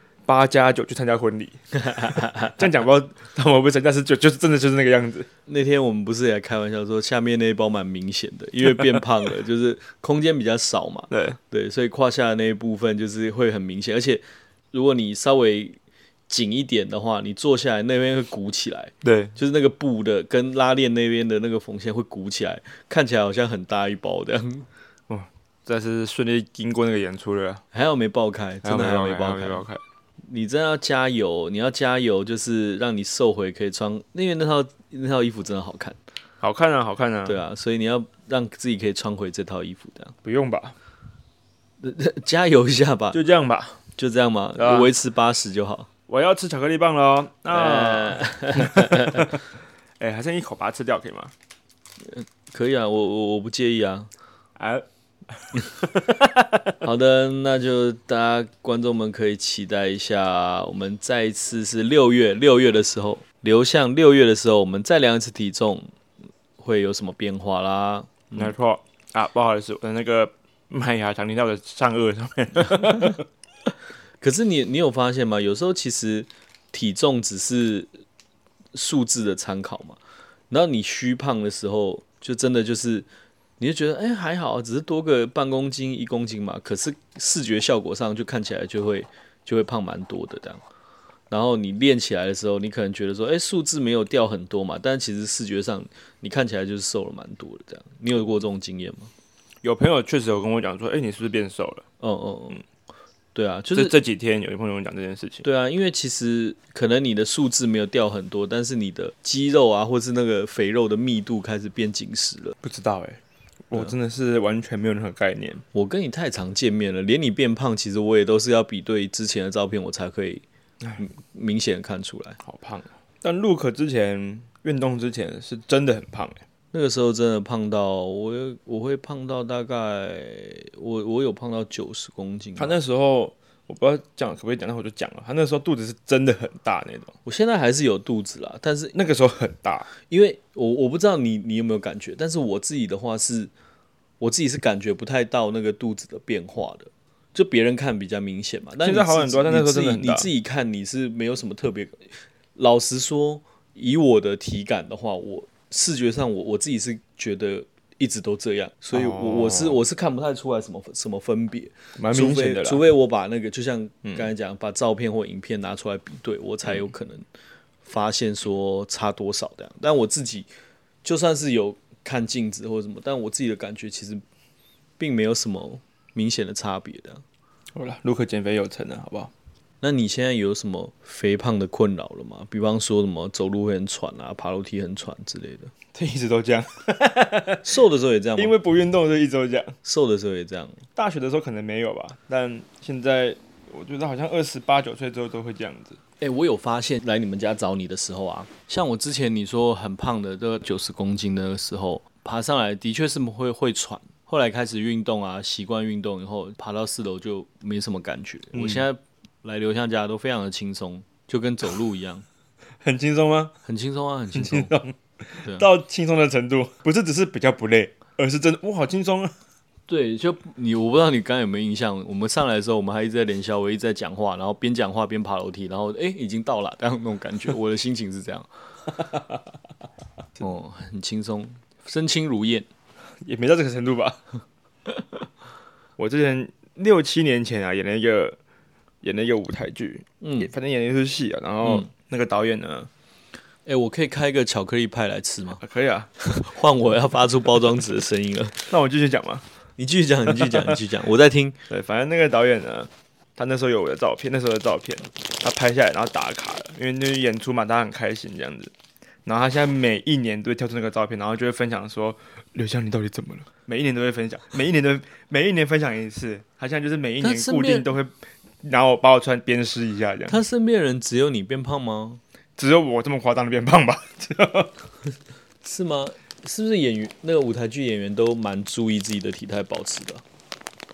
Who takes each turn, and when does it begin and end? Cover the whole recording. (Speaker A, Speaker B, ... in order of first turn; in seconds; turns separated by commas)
Speaker A: 0.3-5.3, Speaker B: 1.8-2.6, Speaker B: 5.5-24.7, Speaker A: 11.1-11.4, Speaker A: 19.0-19.3, Speaker A: 25.1-27.6, Speaker B: 27.7-29.7, Speaker A: 28.6-29.8, Speaker B: 30.2-36.0, Speaker A: 36.4-37.4, Speaker B: 37.2-40.2, Speaker A: 40.2-40.8, Speaker B: 41.8-43.2, Speaker A: 43.1-43.8, Speaker B: 44.0-45.9, Speaker A: 44.6-44.9, Speaker A: 46.1-49.4, Speaker B: 47.5-49.4, Speaker A: 50.0-51.3, Speaker B: 52.0-54.1, Speaker A: 54.6-56.8, Speaker B: 56.8-65.9, Speaker B: 66.6-68.5, Speaker A: 68.3-73.2, Speaker B: 74.2-78.0, Speaker B: 78.7-80.0, Speaker B: 80.5-83.1, Speaker B: 83.6-90.6, Speaker B: 91.3-99.1, Speaker A: 99.6-101.8, Speaker B: 102.0-102.6, Speaker B: 103.3-104.0, Speaker A: 103.7-105.5, Speaker B: 105.4-112.6, Speaker A: 112.6-115.6, Speaker B: 115.7-120.4, Speaker B: 121.0-122.4, Speaker A: 122.4-126.4, Speaker B: 126.7-132.8, Speaker A: 132.6-137.1, Speaker B: 137.3-138.9, Speaker A: 138.9-139.9, Speaker B: 140.1-143.5, Speaker B: 144.2-167.3, Speaker A: 148.8-150.3, Speaker A: 158.9-159.8, Speaker A: 162.0-162.8, Speaker A: 164.1-164.3, Speaker B: 167.8-170.5, Speaker B: 171.0-174.2, Speaker B: 175.0-177.2, Speaker A: 177.7-179.3, Speaker B: 179.8-185.7, Speaker A: 185.9-187.7, Speaker B: 187.6-188.5, Speaker A: 188.4-189.8, Speaker B: 189.8-190.8, Speaker A: 190.9-196.0, Speaker B: 196.2-212.2, Speaker A: 208.5-208.8, Speaker A: 212.8-213.6, Speaker B: 213.7-214.7, Speaker A: 214.3-219.3, Speaker B: 215.4-215.7, Speaker B: 219.9-228.5, Speaker B: 230.4-232.7, Speaker A: 233.2-234.2, Speaker A: 236.0-238.4, Speaker A: 239.0-242.9, Speaker B: 240.2-240.5, Speaker B: 241.6-241.9, Speaker B: 243.7-245.6, Speaker A: 245.6-246.1, Speaker B: 246.2-248.7, Speaker A: 248.7-249.4, Speaker B: 249.8-251.6, Speaker A: 250.3-250.8, Speaker A: 251.7-258.7, Speaker A: 259.2-270.4, Speaker B: 267.2-267.9, Speaker B: 270.3-272.2, Speaker A: 272.6-274.7, Speaker B: 275.6-280.2